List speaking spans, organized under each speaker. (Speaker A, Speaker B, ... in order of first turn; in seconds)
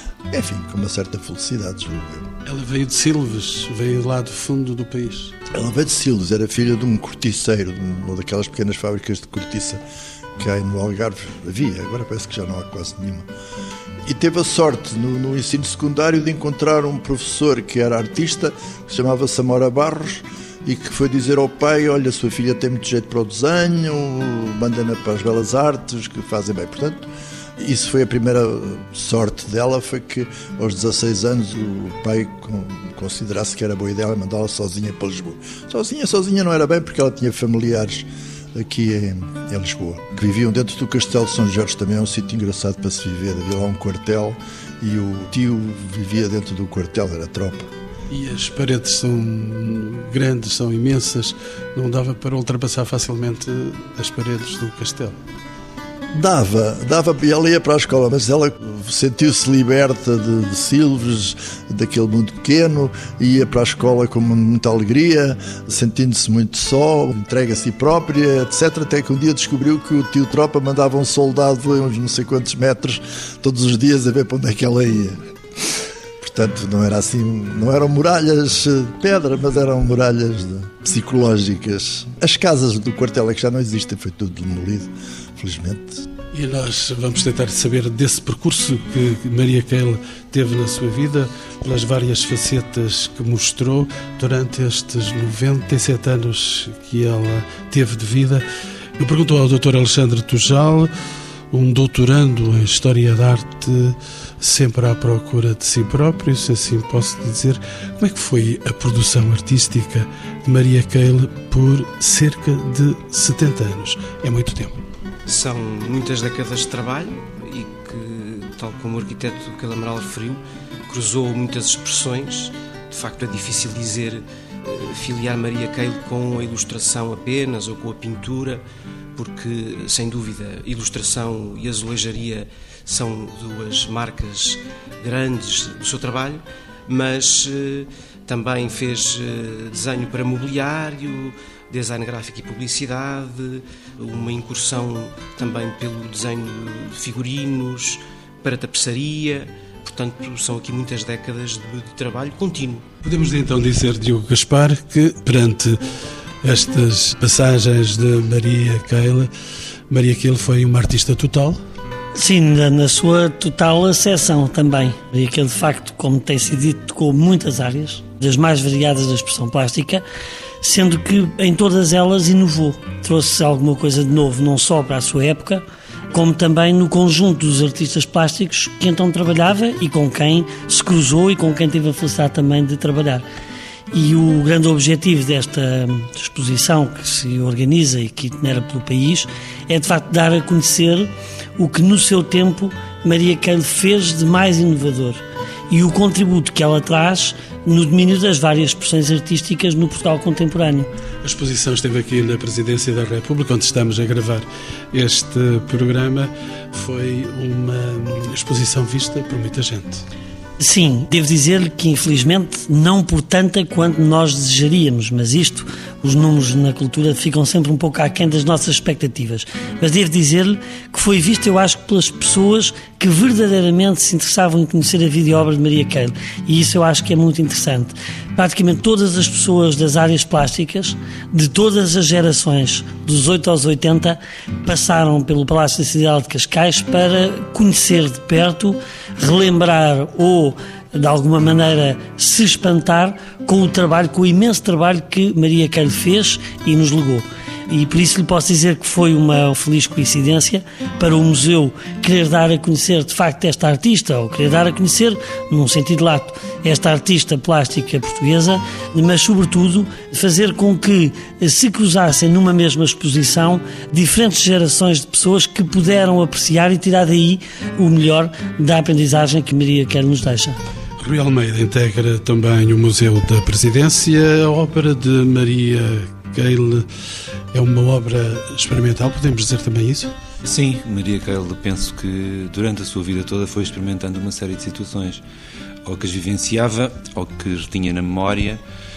Speaker A: 0.3-2.3, 5.5-9.8, 10.4-13.3, 14.0-47.7, 56.1-86.0
Speaker B: 2.4-5.3, 48.1-55.2, 86.3-98.4, 99.0-100.9, 101.5-114.8, 153.0-155.8, 156.4-159.3, 159.9-161.6, 201.2-210.0, 271.0-276.9, 277.5-280.1
Speaker C: 115.2-128.6, 129.2-152.8
Speaker D: 162.1-170.0, 170.6-183.2, 183.9-200.9, 210.6-270.6
Speaker E: 280.4-285.2, 285.8-288.6